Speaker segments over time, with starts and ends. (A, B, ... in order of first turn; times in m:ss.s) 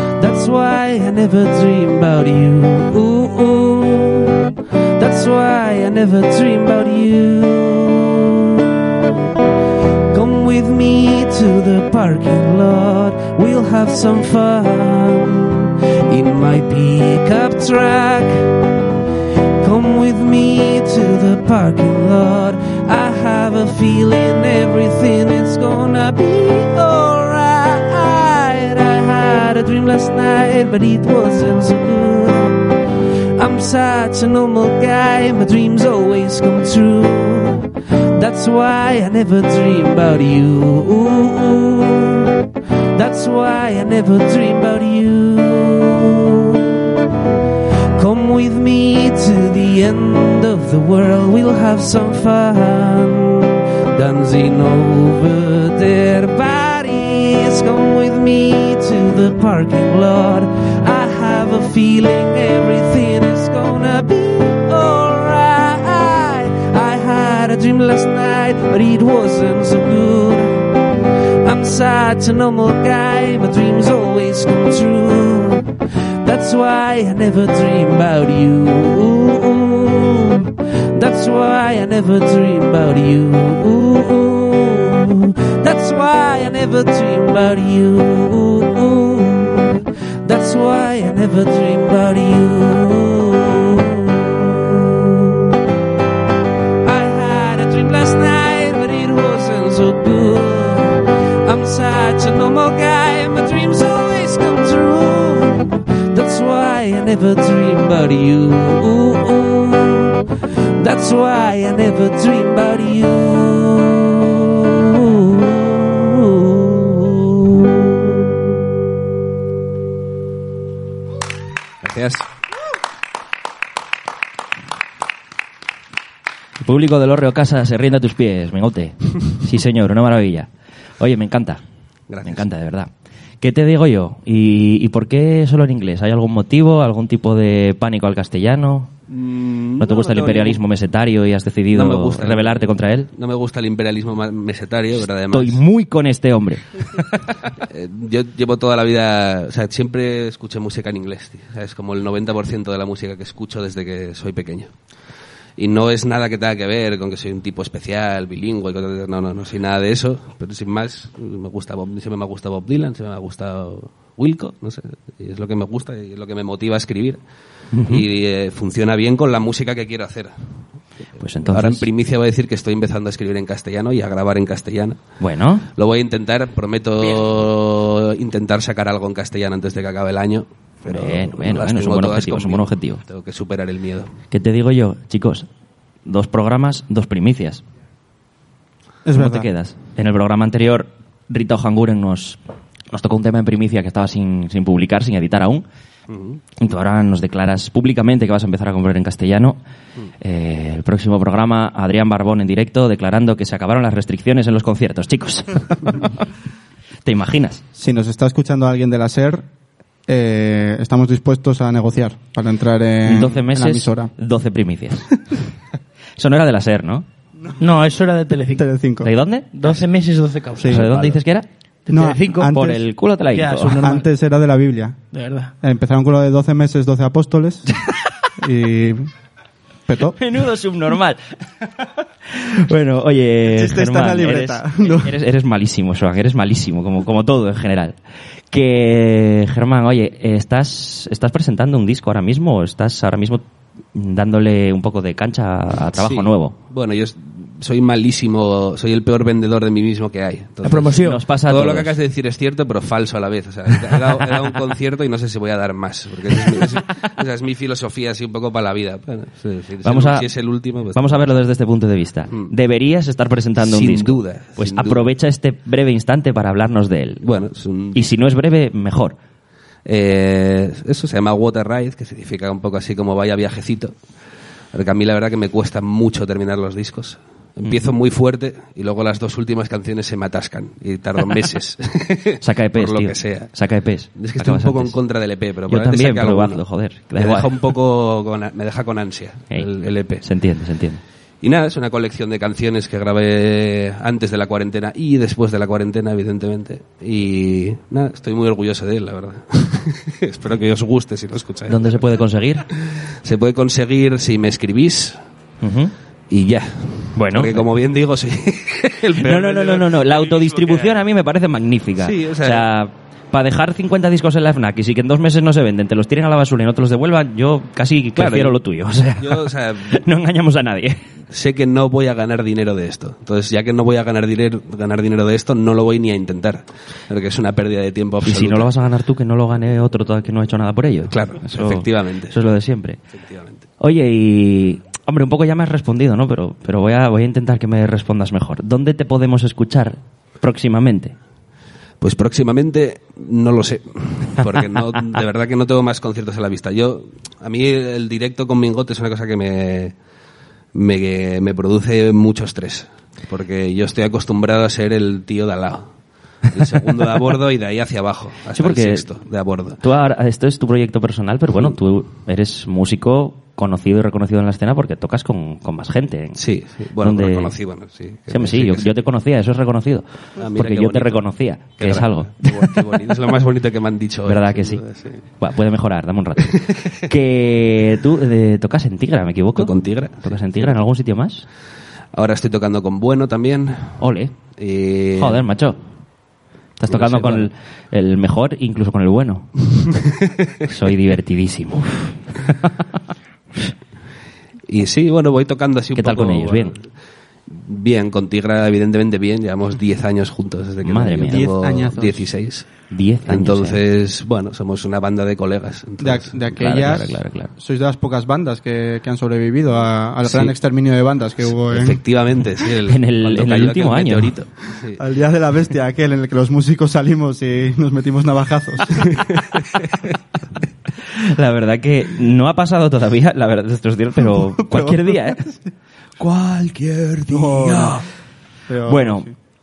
0:00.2-0:04.4 A
0:05.0-0:08.8 A
0:10.1-0:18.4 A
0:19.6-0:32.6 A
0:33.4-0:42.3 A
0:42.9-0:46.9 A
0:48.0-1:10.7 A
1:11.4-1:15.7 A
1:16.2-1:35.5 A
1:36.8-1:50.2 A
1:50.8-1:58.3 A
2:01.8-2:02.2 B
2:06.6-2:10.5 C
2:11.0-2:11.6 C
2:12.1-2:12.4 B
2:12.2-2:12.9 C
2:13.4-2:18.9 C
2:19.1-2:20.6 B
2:19.8-2:23.1 C
2:21.7-2:25.6 B
2:25.3-2:27.2 C
2:27.6-2:34.7 B
2:35.6-2:47.2 B
2:47.7-2:48.0 C
2:47.8-2:50.3 B
2:51.2-2:51.9 C
2:51.4-2:55.0 B
2:55.2-2:55.7 C
2:55.7-3:04.1 B
3:00.8-3:03.0 C
3:04.3-3:05.5 C
3:06.0-3:07.6 C
3:09.0-3:09.5 D
3:09.1-3:12.4 C
3:12.9-3:15.6 C
3:16.1-3:16.4 B
3:16.6-3:19.6 C
3:20.2-3:26.1 C
3:27.0-3:27.6 C
3:27.7-3:29.4 D
3:30.1-3:34.1 D
3:33.0-3:35.1 C
3:36.2-3:37.0 C
3:37.6-3:38.6 E
3:38.5-3:39.1 D
3:39.0-3:39.5 C
3:39.5-3:41.0 E
3:40.6-3:40.8 D
3:40.7-3:41.4 C
3:41.9-3:42.5 E
3:41.9-3:42.8 D
3:42.4-3:43.7 C
3:43.3-3:44.0 E
3:43.7-3:45.0 D
3:45.1-3:45.5 E
3:45.6-3:47.7 D
3:48.4-3:49.1 D
3:49.9-3:50.2 D
3:50.2-3:51.2 C
3:52.3-3:58.0 C
3:53.4-3:55.2 D
3:58.5-4:03.4 C
4:03.9-4:06.5 C
4:06.0-4:21.3 B
4:10.6-4:11.2 E
4:11.0-4:11.9 C
4:19.8-4:20.3 C
4:20.9-4:27.2 C
4:23.6-4:25.0 B
4:27.2-4:28.0 B
4:27.9-4:29.2 C
4:29.8-4:33.9 B
4:34.7-4:43.5 B
4:42.4-4:45.0 C
4:44.2-4:46.6 B
4:45.7-4:47.7 C
4:47.1-4:50.2 B
4:50.2-4:51.0 C
4:51.4-5:02.0 B
5:01.7-5:02.6 C
5:02.8-5:05.2 B
5:05.6-5:05.9 C
5:06.3-5:11.0 B
5:07.1-5:07.6 C
5:09.2-5:21.0 C
5:12.0-5:12.7 B
5:18.2-5:18.6 B
5:19.2-5:20.0 B
5:21.3-5:28.7 B
5:28.2-5:33.0 C
5:31.1-5:32.4 B
5:33.1-5:33.6 B
5:33.8-5:41.1 C
5:42.0-5:49.9 B
5:50.7-5:55.9 B
5:56.4-5:59.8 B
5:58.6-5:59.1 C
5:59.8-6:06.4 C
6:06.3-6:08.9 B
6:07.0-6:07.5 C
6:08.3-6:10.0 C
6:10.4-6:11.2 B
6:10.6-6:12.3 C
6:11.8-6:15.2 B
6:14.3-6:14.8 C
6:15.4-6:21.4 C
6:16.4-6:16.9 B
6:19.6-6:20.7 B
6:22.1-6:24.0 B
6:24.0-6:24.3 C
6:24.6-6:25.4 B
6:25.2-6:25.8 C
6:26.8-6:29.5 C
6:26.9-6:27.5 B
6:30.7-6:32.7 C
6:34.7-6:36.8 B
6:36.0-6:36.7 C
6:37.5-6:46.8 B
6:40.8-6:41.5 C
6:41.3-6:42.3 D
6:42.9-6:43.8 C
6:46.0-6:52.0 D
6:46.5-6:47.5 C
6:50.2-6:50.5 B
6:51.6-6:55.0 B
6:52.9-6:54.3 C
6:55.0-6:59.2 D
7:01.2-7:05.4 C
7:04.2-7:05.7 D
7:06.2-7:07.9 B
7:07.3-7:08.0 D
7:08.7-7:09.3 D
7:08.9-7:09.3 C